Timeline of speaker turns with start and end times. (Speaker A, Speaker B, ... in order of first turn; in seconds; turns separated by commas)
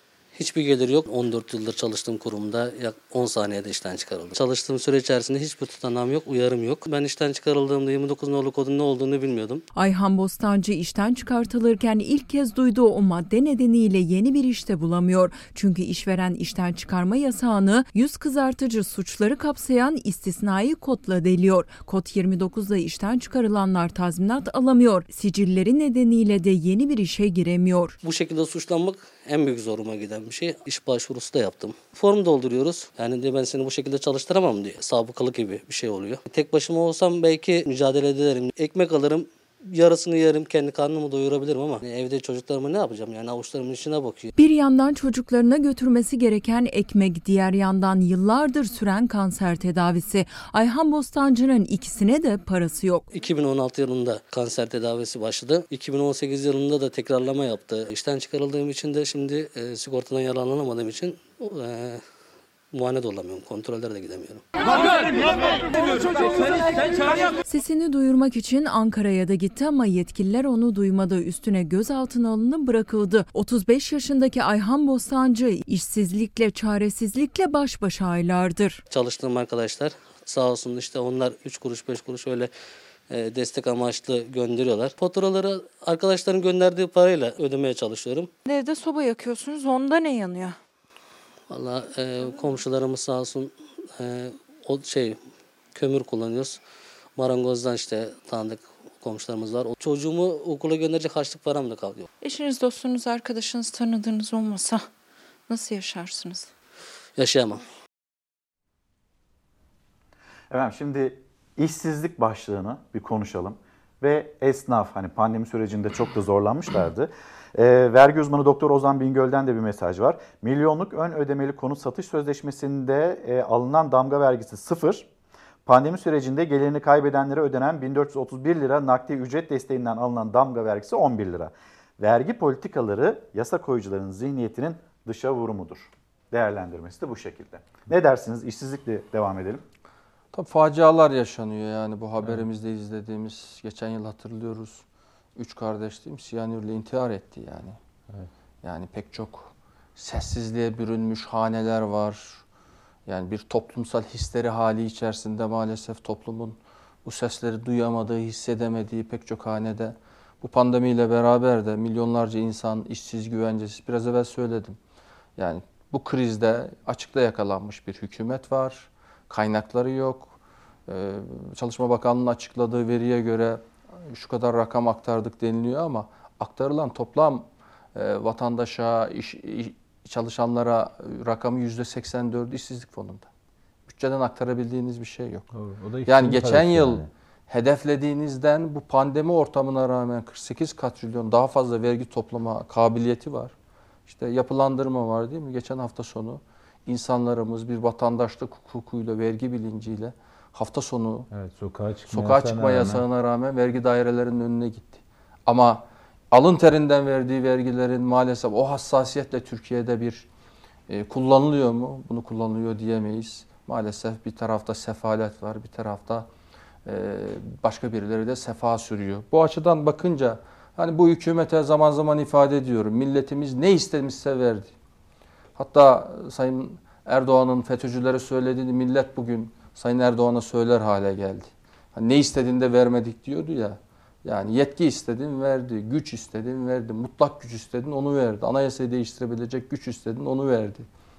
Speaker A: 0.3-9.6, Speaker B: 9.7-28.0, Speaker A: 28.0-44.3, Speaker B: 44.4-53.0, Speaker A: 53.1-62.0, Speaker A: 62.7-65.0, Speaker B: 67.4-78.8, Speaker A: 78.9-82.5, Speaker A: 83.1-88.3, Speaker C: 88.4-90.6, Speaker A: 91.5-95.2, Speaker A: 95.7-96.6, Speaker A: 97.2-102.1, Speaker C: 102.2-104.9, Speaker C: 105.5-106.5, Speaker A: 107.2-107.6, Speaker D: 110.5-125.1, Speaker D: 125.7-139.6, Speaker E: 140.3-144.8, Speaker E: 145.3-147.8, Speaker E: 148.6-152.4, Speaker E: 153.1-164.8, Speaker E: 165.4-183.3, Speaker E: 183.9-185.5, Speaker F: 185.5-187.1, Speaker E: 186.1-193.5, Speaker E: 194.1-201.3, Speaker F: 201.3-203.0, Speaker E: 202.1-210.2, Speaker E: 210.9-216.3, Speaker E: 216.8-224.7, Speaker E: 225.6-240.9